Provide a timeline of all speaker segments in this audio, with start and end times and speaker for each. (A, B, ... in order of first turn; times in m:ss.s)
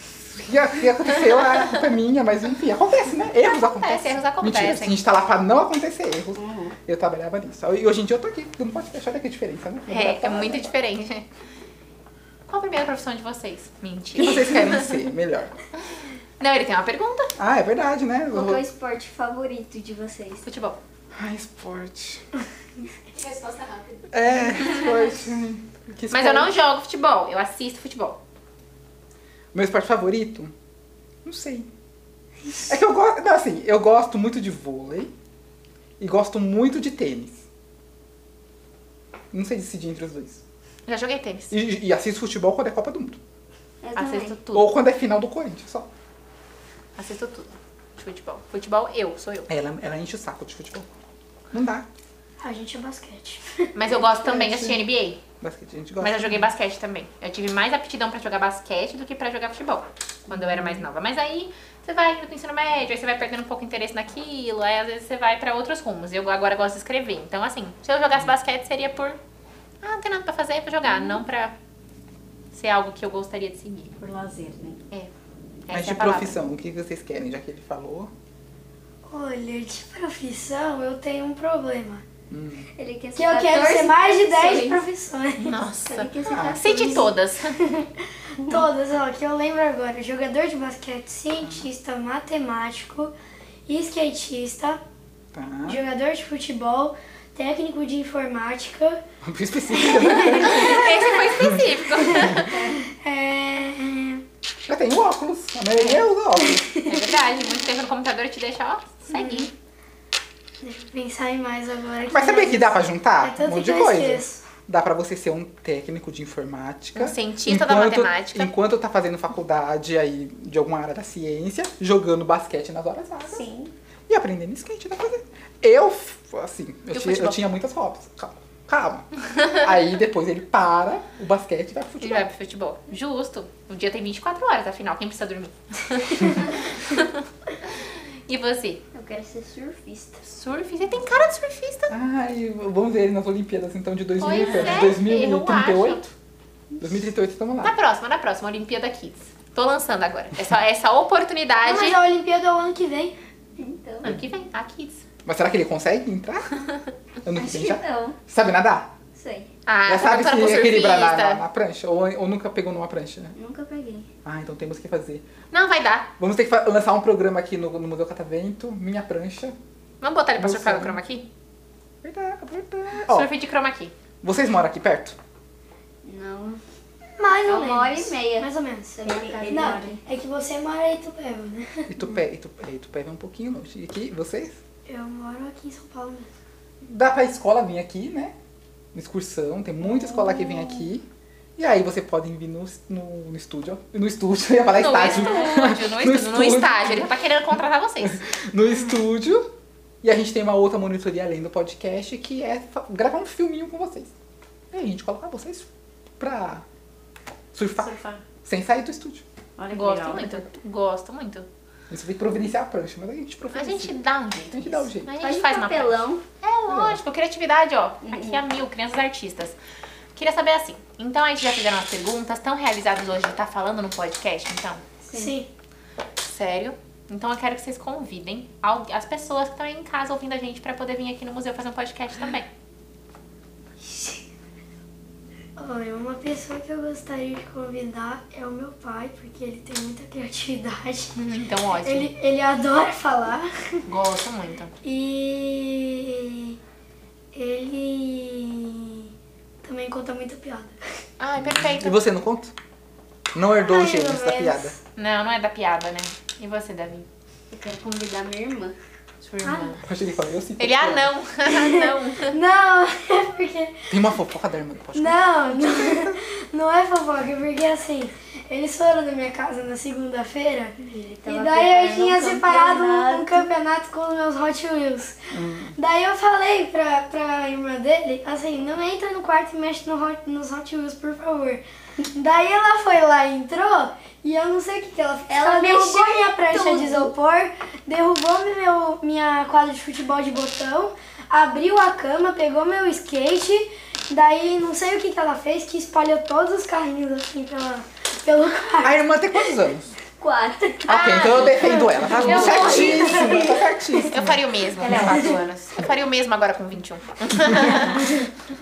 0:00.1-0:10.8 A
0:03.4-0:05.0 B
0:06.4-0:06.7 C
0:09.9-0:11.2 B
0:12.5-0:15.0 B
0:14.1-0:15.5 A
0:15.8-0:17.3 B
0:17.4-0:18.6 A
0:18.3-0:20.4 D
0:20.4-0:20.8 B
0:21.1-0:22.2 A
0:23.1-0:24.9 B
0:24.1-0:26.5 A
0:26.1-0:28.2 B
0:29.5-0:30.5 A
0:31.2-0:31.7 A
0:32.5-0:35.1 A
0:36.0-0:37.4 A
0:39.3-0:40.4 A
0:40.9-0:41.5 B
0:41.5-0:43.2 A
0:43.8-0:44.4 D
0:43.9-0:44.7 B
0:44.5-0:45.9 A
0:47.0-0:49.5 B
0:49.5-0:50.9 A
0:51.5-0:51.8 A
0:52.4-0:53.7 E
0:53.7-0:55.2 B
0:54.0-0:54.8 A
0:55.4-0:56.5 A
0:56.0-1:09.2 B
1:00.3-1:00.5 C
1:09.8-1:11.5 B
1:12.5-1:13.9 B
1:14.0-1:14.8 C
1:15.7-1:16.4 B
1:15.7-1:18.1 A
1:19.0-1:22.0 E
1:22.3-1:22.7 A
1:22.8-1:24.8 D
1:23.1-1:25.6 E
1:25.4-1:27.6 B
1:25.8-1:27.1 D
1:26.3-1:26.6 A
1:26.7-1:33.1 E
1:31.4-1:31.7 A
1:33.7-1:34.8 E
1:35.3-1:35.8 A
1:35.6-1:39.0 E
1:39.2-1:42.4 A
1:39.7-1:41.2 E
1:40.4-1:42.5 B
1:42.0-1:44.2 E
1:42.4-1:42.7 D
1:44.6-1:46.7 A
1:45.8-1:46.1 B
1:46.7-1:49.5 B
1:49.1-1:49.5 E
1:50.6-1:54.4 E
1:52.1-2:03.4 A
1:56.9-1:58.5 B
2:03.2-2:03.7 C
2:04.1-2:12.3 A
2:06.9-2:07.4 B
2:12.0-2:17.1 B
2:17.6-2:18.8 B
2:18.9-2:20.2 D
2:20.2-2:21.9 B
2:21.9-2:26.1 A
2:24.2-2:26.0 B
2:26.8-2:27.7 A
2:27.6-2:32.0 B
2:31.6-2:33.1 E
2:33.6-2:34.2 D
2:34.0-2:35.0 B
2:35.2-2:36.5 A
2:37.2-2:38.9 A
2:37.3-2:38.2 D
2:39.1-2:39.5 D
2:39.6-2:41.4 B
2:39.8-2:43.3 A
2:43.4-2:44.1 D
2:44.2-2:45.3 A
2:45.5-2:46.1 B
2:46.2-2:49.6 A
2:50.0-2:51.2 B
2:50.4-2:51.0 A
2:52.0-2:53.3 A
2:53.0-2:53.9 B
2:54.2-2:55.2 A
2:56.0-2:56.6 D
2:57.2-3:01.8 E
2:57.4-3:00.0 D
2:59.0-3:00.0 C
3:01.9-3:04.6 A
3:04.9-3:06.3 E
3:06.8-3:08.3 A
3:08.9-3:11.0 A
3:11.6-3:19.4 A
3:14.7-3:18.7 B
3:20.0-3:24.1 A
3:24.7-3:25.6 A
3:26.2-3:26.6 A
3:27.5-3:27.9 A
3:27.8-3:28.2 C
3:28.4-3:29.2 A
3:29.6-3:30.2 C
3:29.7-3:31.5 B
3:30.1-3:30.5 A
3:31.9-3:34.0 A
3:33.5-3:39.6 B
3:34.5-3:35.1 A
3:35.2-3:36.2 D
3:36.7-3:37.0 A
3:38.0-3:38.3 C
3:40.1-3:44.8 B
3:45.1-3:45.4 D
3:45.1-3:45.5 E
3:46.2-3:52.5 B
3:53.8-3:54.2 E
3:55.6-4:01.2 E
4:01.2-4:02.1 B
4:01.8-4:03.8 E
4:03.9-4:04.7 B
4:04.8-4:06.6 E
4:07.3-4:09.1 E
4:09.6-4:10.8 E
4:11.2-4:12.0 B
4:11.4-4:12.5 A
4:13.3-4:14.7 A
4:13.5-4:14.8 E
4:15.0-4:17.0 B
4:17.5-4:18.8 D
4:19.2-4:19.8 B
4:19.4-4:19.7 E
4:19.8-4:21.1 A
4:20.6-4:22.4 B
4:21.4-4:23.9 E
4:23.9-4:26.1 A
4:24.9-4:30.8 E
4:30.8-4:33.5 D
4:31.3-4:35.2 E
4:35.3-4:35.7 A
4:35.8-4:59.0 E
4:45.3-4:47.1 D
4:58.8-4:59.9 A
5:00.2-5:00.9 D
5:00.8-5:05.3 A
5:00.9-5:03.3 B
5:02.0-5:03.8 D
5:04.1-5:08.0 B
5:04.8-5:05.3 C